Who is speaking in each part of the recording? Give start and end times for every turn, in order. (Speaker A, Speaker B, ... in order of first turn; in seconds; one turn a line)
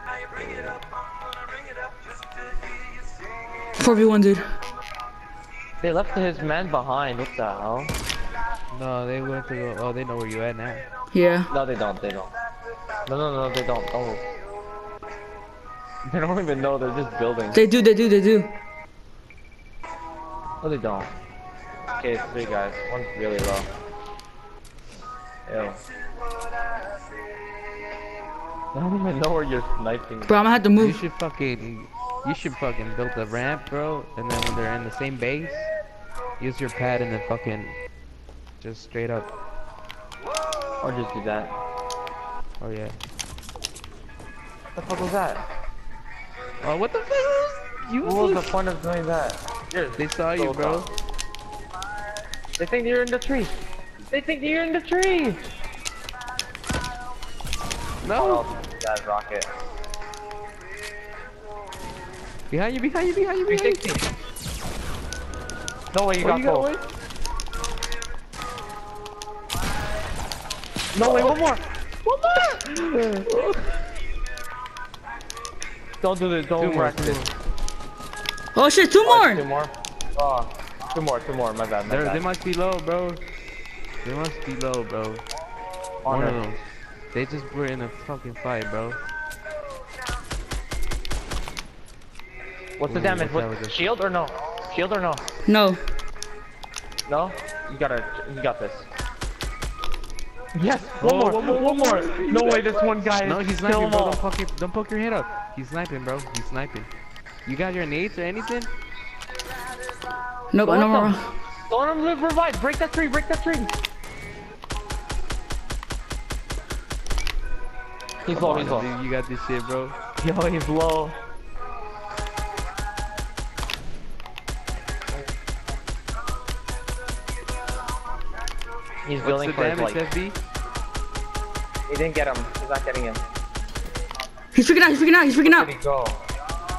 Speaker A: 0.4-0.8
Speaker B: 3.8-4.5
Speaker C: 5.8-7.9
Speaker A: 8.7-10.8
Speaker B: 11.1-11.5
Speaker C: 11.5-12.3
Speaker C: 13.1-14.3
Speaker C: 16.1-17.6
Speaker B: 17.5-18.5
Speaker C: 20.6-21.1
Speaker C: 21.9-23.7
Speaker C: 25.5-25.8
Speaker C: 28.7-30.5
Speaker B: 30.3-31.0
Speaker A: 30.8-35.7
Speaker A: 36.4-37.8
Speaker A: 38.6-39.3
Speaker C: 40.8-41.5
Speaker A: 42.6-43.0
Speaker C: 44.7-45.4
Speaker A: 46.6-48.5
Speaker C: 48.0-50.9
Speaker A: 50.0-50.9
Speaker C: 52.6-53.5
Speaker C: 54.1-55.4
Speaker A: 58.0-58.5
Speaker C: 58.2-59.5
Speaker A: 62.5-63.8
Speaker C: 63.5-64.0
Speaker C: 65.9-66.7
Speaker A: 66.2-66.9
Speaker C: 70.9-71.6
Speaker A: 71.0-71.4
Speaker A: 72.0-73.8
Speaker C: 76.0-77.2
Speaker A: 76.6-77.3
Speaker B: 78.5-79.4
Speaker C: 79.0-82.2
Speaker A: 81.8-83.2
Speaker A: 84.0-85.2
Speaker C: 86.0-86.4
Speaker A: 86.1-89.0
Speaker C: 92.8-95.2
Speaker A: 92.9-93.8
Speaker B: 95.5-95.8
Speaker C: 97.1-98.9
Speaker C: 100.5-104.2
Speaker A: 101.0-106.9
Speaker A: 107.5-108.7
Speaker B: 110.5-111.3
Speaker C: 110.6-111.2
Speaker C: 111.7-113.7
Speaker C: 118.2-118.9
Speaker A: 118.3-120.0
Speaker C: 120.2-121.2
Speaker C: 129.0-130.0
Speaker A: 129.2-130.4
Speaker C: 131.9-133.2
Speaker B: 134.6-135.7
Speaker C: 135.4-136.2